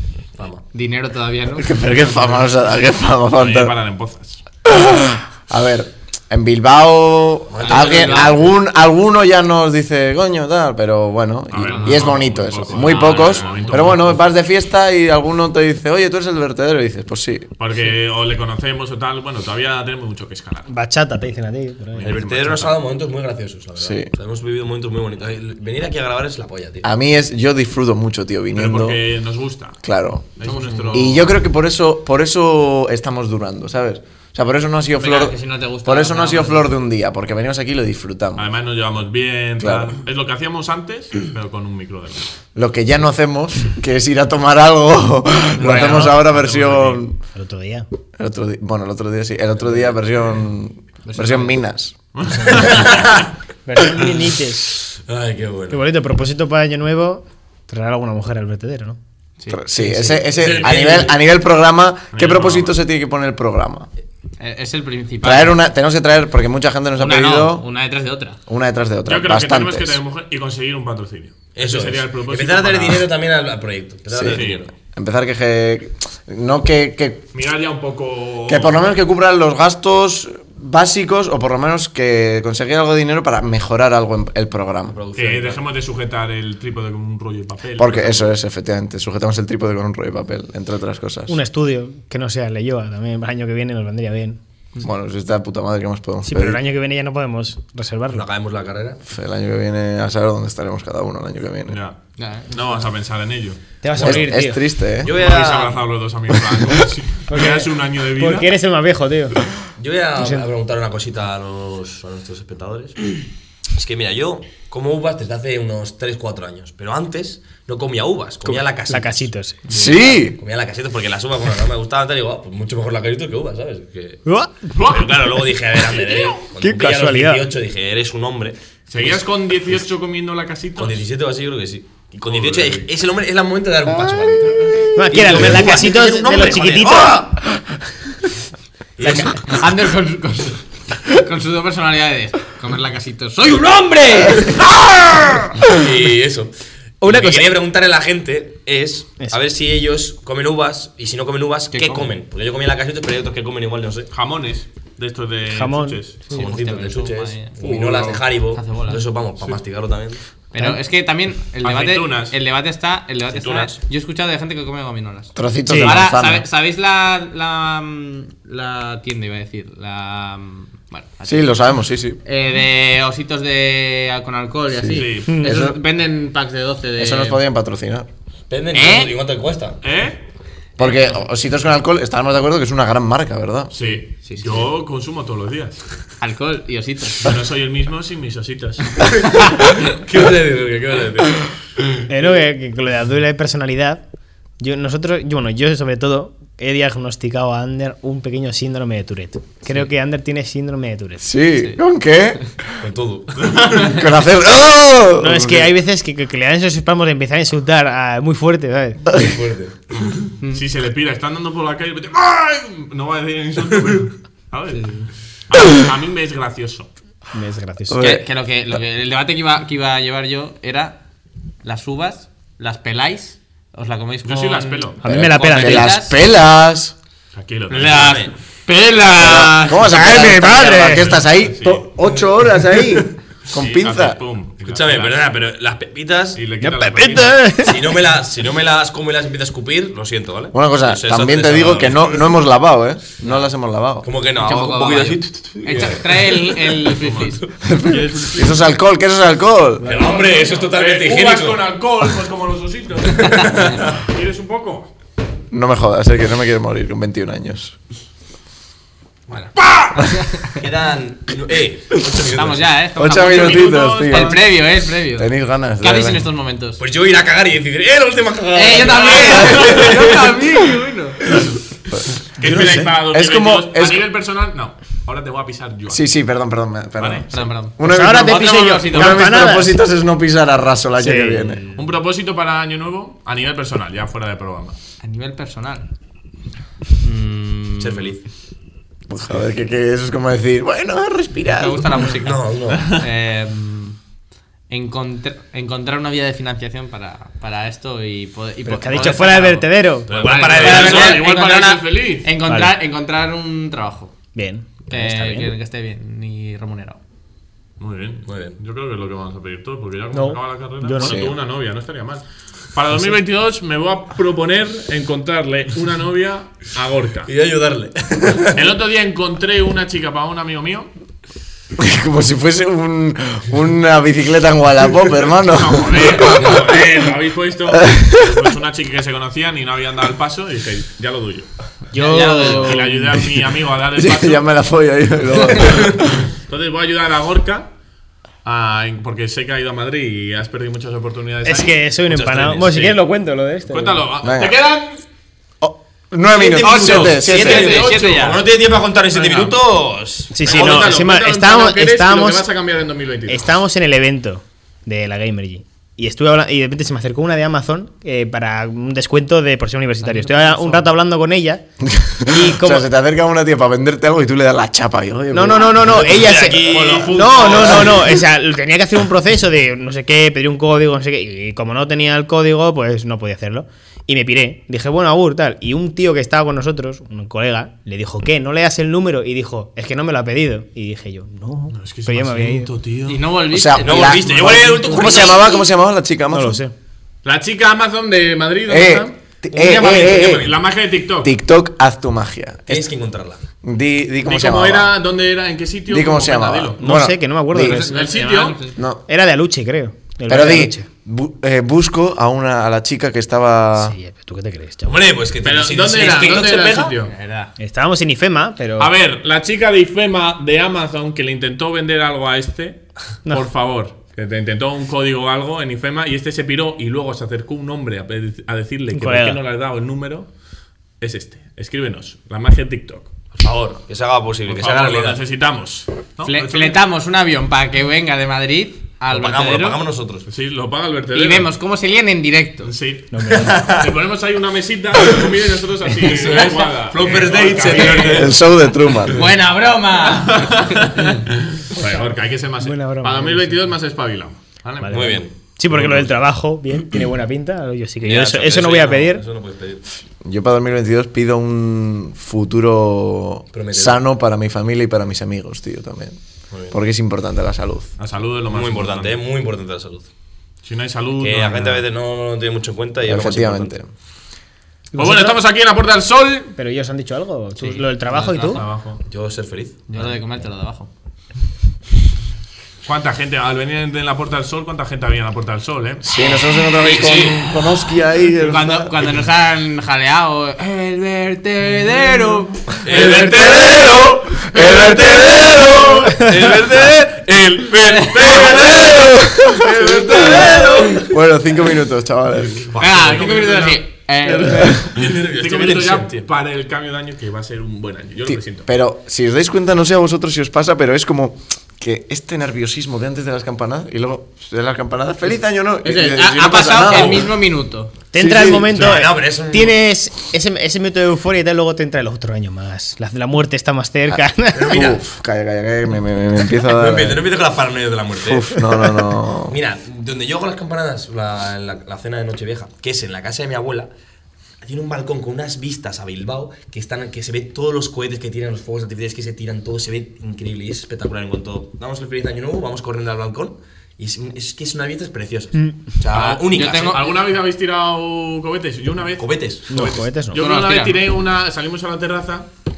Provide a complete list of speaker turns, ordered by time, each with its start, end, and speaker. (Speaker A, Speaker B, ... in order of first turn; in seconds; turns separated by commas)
Speaker A: 0.4-0.6, Speaker B: 0.7-1.8, Speaker C: 1.6-3.8, Speaker D: 2.0-2.5, Speaker D: 3.4-4.4, Speaker C: 4.7-17.5, Speaker A: 7.5-8.5, Speaker B: 7.6-8.4, Speaker D: 11.5-14.3, Speaker A: 11.6-12.2, Speaker A: 12.8-14.0, Speaker B: 12.8-13.3, Speaker D: 17.6-20.7, Speaker E: 20.7-22.1, Speaker D: 21.9-22.8, Speaker A: 22.1-26.9, Speaker C: 23.8-24.1, Speaker C: 26.8-29.0, Speaker D: 28.5-29.8, Speaker C: 29.8-30.4, Speaker D: 30.4-31.3, Speaker B: 30.4-31.2, Speaker C: 30.9-38.5, Speaker B: 34.9-36.7, Speaker D: 38.4-42.3, Speaker C: 39.6-40.0, Speaker C: 42.5-47.2, Speaker E: 45.6-46.2, Speaker D: 45.7-47.0, Speaker E: 47.3-47.9, Speaker C: 48.2-51.9, Speaker B: 51.1-51.6, Speaker D: 52.1-53.1, Speaker A: 52.5-53.0, Speaker E: 53.6-54.8, Speaker A: 54.9-55.8, Speaker E: 55.7-59.0, Speaker B: 59.4-60.3, Speaker C: 59.5-63.9, Speaker D: 60.4-61.2, Speaker A: 60.6-60.9, Speaker D: 62.1-62.8, Speaker B: 64.4-65.6, Speaker C: 65.2-67.7, Speaker B: 67.0-68.4, Speaker C: 68.5-70.0, Speaker D: 69.0-73.1, Speaker A: 71.5-74.7, Speaker C: 74.1-74.4, Speaker D: 74.3-74.7, Speaker C: 74.9-77.2, Speaker D: 77.3-78.9, Speaker C: 78.5-85.0, Speaker A: 84.9-85.6, Speaker D: 85.1-88.3, Speaker C: 87.8-91.4, Speaker E: 91.3-94.4, Speaker C: 94.8-96.6, Speaker E: 96.2-98.3, Speaker A: 98.1-99.0, Speaker C: 99.1-101.8, Speaker D: 101.7-102.0, Speaker B: 102.2-102.8, Speaker D: 102.5-104.1, Speaker E: 103.8-104.6, Speaker C: 104.0-105.1, Speaker A: 105.0-105.9, Speaker D: 105.1-108.5, Speaker E: 107.3-109.4, Speaker A: 109.8-113.2, Speaker E: 110.2-110.5, Speaker A: 113.8-124.2, Speaker E: 118.5-119.9, Speaker C: 119.7-120.4, Speaker E: 124.3-124.7, Speaker D: 124.7-125.1, Speaker A: 124.9-129.2, Speaker E: 126.2-127.5, Speaker D: 128.9-131.1, Speaker A: 130.8-137.3, Speaker D: 132.3-132.8, Speaker E: 134.9-137.3, Speaker A: 139.0-139.9, Speaker E: 139.0-139.3, Speaker B: 139.4-144.7, Speaker A: 145.7-154.1, Speaker B: 151.7-152.2, Speaker D: 154.1-156.5, Speaker E: 155.5-156.5, Speaker B: 156.3-157.7, Speaker A: 156.3-160.3, Speaker D: 157.6-158.4, Speaker B: 158.4-159.1, Speaker B: 160.5-177.4, Speaker D: 161.6-162.4, Speaker D: 163.4-163.7, Speaker A: 163.4-163.8, Speaker C: 165.3-166.5, Speaker E: 165.7-166.1, Speaker C: 171.3-172.2, Speaker C: 174.8-175.8, Speaker D: 174.9-175.5, Speaker E: 175.3-175.7, Speaker C: 177.0-178.1, Speaker A: 178.5-179.8, Speaker B: 178.7-179.2, Speaker D: 179.8-180.2, Speaker C: 180.8-183.7, Speaker B: 180.8-181.1, Speaker D: 183.7-185.8, Speaker B: 184.1-184.7, Speaker B: 186.2-187.3, Speaker D: 187.2-189.0, Speaker A: 189.1-191.3, Speaker D: 191.0-191.4, Speaker E: 192.1-194.0, Speaker E: 194.6-201.3, Speaker C: 201.2-202.7, Speaker B: 201.5-201.8, Speaker A: 202.8-203.5, Speaker D: 203.4-204.0, Speaker C: 203.7-205.7, Speaker E: 205.2-209.2, Speaker A: 209.1-210.0, Speaker D: 210.5-214.9, Speaker B: 214.8-215.1, Speaker D: 215.5-216.9, Speaker E: 217.3-218.1, Speaker C: 217.9-218.2, Speaker B: 218.0-221.0, Speaker B: 221.6-226.2, Speaker D: 224.2-225.0, Speaker E: 225.0-225.9, Speaker C: 225.0-226.9, Speaker D: 227.3-228.1, Speaker B: 227.7-230.9, Speaker A: 227.9-228.3, Speaker C: 229.2-234.2, Speaker E: 229.9-231.1, Speaker D: 230.9-231.9, Speaker A: 232.0-233.1, Speaker D: 233.5-235.2, Speaker A: 234.6-236.7, Speaker D: 236.3-237.5, Speaker E: 236.6-237.9, Speaker A: 237.6-242.3, Speaker C: 240.5-244.1, Speaker B: 243.2-243.5, Speaker A: 244.0-246.6, Speaker B: 244.3-247.5, Speaker D: 245.7-246.1, Speaker D: 246.9-248.7, Speaker C: 247.6-249.9, Speaker A: 249.8-251.7, Speaker E: 249.8-250.2, Speaker D: 249.9-254.9, Speaker C: 255.5-257.8, Speaker B: 259.4-260.6, Speaker D: 259.6-259.9, Speaker A: 260.6-262.7, Speaker B: 262.2-266.8, Speaker C: 263.0-264.6, Speaker D: 263.3-264.4, Speaker C: 265.2-266.3, Speaker A: 266.8-270.4, Speaker B: 268.5-271.3, Speaker C: 272.0-274.1, Speaker D: 272.4-276.2, Speaker C: 275.9-281.6, Speaker D: 277.0-277.4, Speaker B: 277.3-277.8, Speaker E: 277.8-279.8, Speaker B: 278.3-279.3, Speaker E: 281.0-281.7, Speaker D: 281.8-284.8, Speaker B: 285.0-285.9, Speaker B: 287.0-288.2, Speaker A: 287.8-288.2, Speaker C: 289.1-291.9, Speaker B: 291.4-294.0, Speaker A: 292.2-293.0, Speaker B: 294.7-304.1, Speaker E: 298.7-300.1, Speaker A: 298.9-299.4, Speaker A: 300.1-301.2, Speaker D: 300.1-302.3, Speaker E: 302.4-302.8, Speaker E: 304.3-305.6, Speaker B: 304.9-307.0, Speaker D: 307.8-317.3, Speaker A: 308.3-308.6, Speaker E: 310.1-311.2, Speaker C: 311.0-311.3, Speaker A: 317.3-318.6, Speaker D: 318.5-320.9, Speaker C: 321.8-326.5, Speaker D: 325.3-331.5, Speaker C: 327.7-328.3, Speaker E: 331.9-333.2, Speaker B: 331.9-332.9, Speaker D: 332.5-334.6, Speaker C: 333.9-336.3, Speaker D: 336.4-337.7, Speaker D: 338.4-343.0, Speaker E: 341.4-344.1, Speaker A: 342.1-342.6, Speaker D: 343.7-345.0, Speaker C: 344.2-344.6, Speaker C: 345.6-347.8, Speaker A: 346.3-351.0, Speaker B: 346.6-348.5, Speaker D: 346.7-348.4, Speaker D: 349.2-349.5, Speaker E: 349.2-349.4, Speaker E: 350.3-352.5, Speaker D: 350.4-353.6, Speaker E: 353.3-361.6, Speaker B: 360.0-360.9, Speaker C: 361.9-366.2, Speaker E: 362.2-362.9, Speaker E: 365.3-382.7, Speaker A: 365.8-368.0, Speaker D: 366.5-368.1, Speaker D: 381.7-383.3, Speaker B: 383.1-385.6, Speaker C: 383.5-386.6, Speaker A: 383.8-385.4, Speaker D: 384.1-384.7, Speaker E: 386.3-386.7, Speaker D: 387.2-389.2, Speaker C: 388.7-390.4, Speaker A: 389.5-390.6, Speaker D: 390.1-391.3, Speaker C: 391.2-392.9, Speaker A: 392.7-393.4, Speaker C: 393.6-394.9, Speaker D: 394.2-396.8, Speaker C: 395.9-397.9, Speaker E: 396.8-398.0, Speaker B: 397.6-398.8, Speaker D: 397.9-398.6, Speaker C: 398.8-399.0, Speaker E: 399.1-400.9, Speaker C: 400.3-403.9, Speaker E: 403.8-405.1, Speaker A: 404.9-406.9, Speaker D: 405.4-407.1, Speaker B: 406.1-407.5, Speaker E: 407.6-408.9, Speaker D: 408.8-420.3, Speaker E: 418.9-419.4, Speaker D: 421.0-423.1, Speaker A: 423.3-425.2, Speaker D: 424.5-426.8, Speaker B: 426.2-429.9, Speaker A: 429.1-430.2, Speaker D: 430.3-431.5, Speaker B: 431.1-432.7, Speaker D: 432.6-438.4, Speaker E: 433.1-433.7, Speaker A: 433.3-433.8, Speaker A: 436.0-438.3, Speaker C: 437.8-439.3, Speaker B: 439.0-441.2, Speaker D: 440.0-445.1, Speaker E: 441.8-442.1, Speaker E: 442.6-443.6, Speaker E: 444.8-449.2, Speaker A: 444.9-445.3, Speaker D: 445.7-446.1, Speaker A: 448.0-449.9, Speaker C: 450.2-456.2, Speaker A: 453.5-454.0, Speaker A: 456.5-456.8, Speaker C: 456.7-457.9, Speaker D: 458.0-459.2, Speaker A: 458.5-460.1, Speaker D: 460.6-461.9, Speaker A: 461.2-463.8, Speaker C: 463.1-463.9, Speaker E: 464.9-465.4, Speaker D: 465.0-466.5, Speaker E: 466.6-468.6, Speaker B: 467.6-468.6, Speaker D: 468.5-469.0, Speaker A: 469.0-469.9, Speaker B: 469.9-470.9, Speaker D: 472.8-476.1, Speaker C: 476.0-479.1, Speaker A: 476.9-477.3, Speaker B: 476.9-477.7, Speaker B: 478.4-482.7, Speaker D: 482.8-490.9, Speaker A: 482.9-484.1, Speaker C: 484.5-486.1, Speaker A: 486.1-487.1, Speaker B: 487.9-489.0, Speaker A: 488.2-488.7, Speaker C: 488.8-492.7, Speaker A: 489.8-491.0, Speaker D: 492.4-498.7, Speaker A: 492.8-493.2, Speaker B: 492.8-494.8, Speaker A: 494.9-496.2, Speaker C: 498.3-507.3, Speaker B: 505.8-508.0, Speaker A: 506.8-507.3, Speaker E: 508.1-514.9, Speaker C: 508.2-508.7, Speaker A: 508.6-509.8, Speaker A: 514.5-515.0, Speaker C: 514.7-517.3, Speaker A: 516.5-518.5, Speaker C: 518.2-519.5, Speaker A: 519.5-523.9, Speaker A: 524.6-537.0, Speaker D: 536.1-542.5, Speaker B: 536.5-537.2, Speaker A: 539.2-539.9, Speaker E: 539.7-540.4, Speaker B: 540.3-541.0